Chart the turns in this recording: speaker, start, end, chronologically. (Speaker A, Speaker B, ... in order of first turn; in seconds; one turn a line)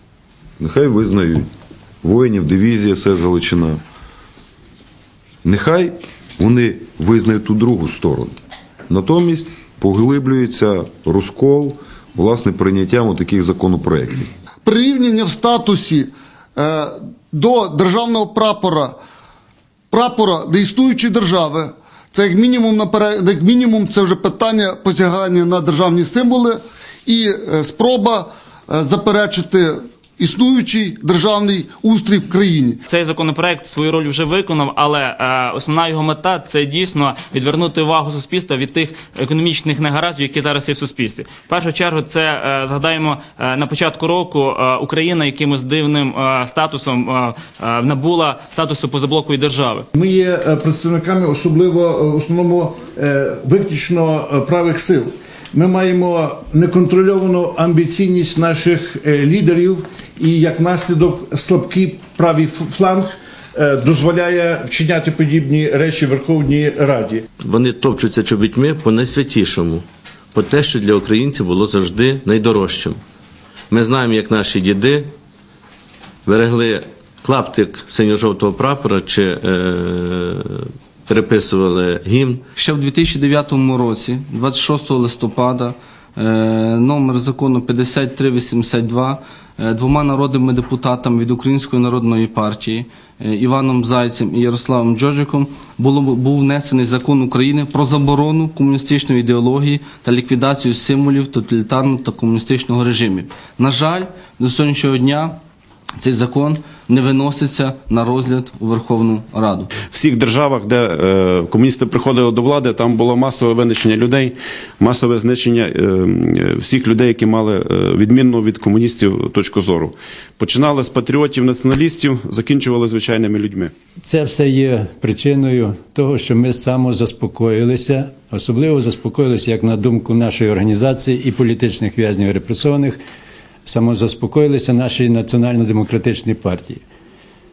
Speaker A: 0.6-1.5
Speaker A: 2.0-3.8
Speaker A: 5.4-8.3
Speaker A: 8.9-14.3
Speaker B: 14.7-18.9
Speaker B: 19.9-32.8
Speaker C: 32.9-49.9
Speaker D: 50.0-67.2
Speaker E: 67.4-73.0
Speaker E: 73.7-75.1
Speaker E: 76.3-82.4
Speaker F: 82.6-105.4
Speaker F: 106.0-109.7
Speaker G: 109.8-123.7
Speaker H: 124.0-133.0
Speaker H: 133.7-136.8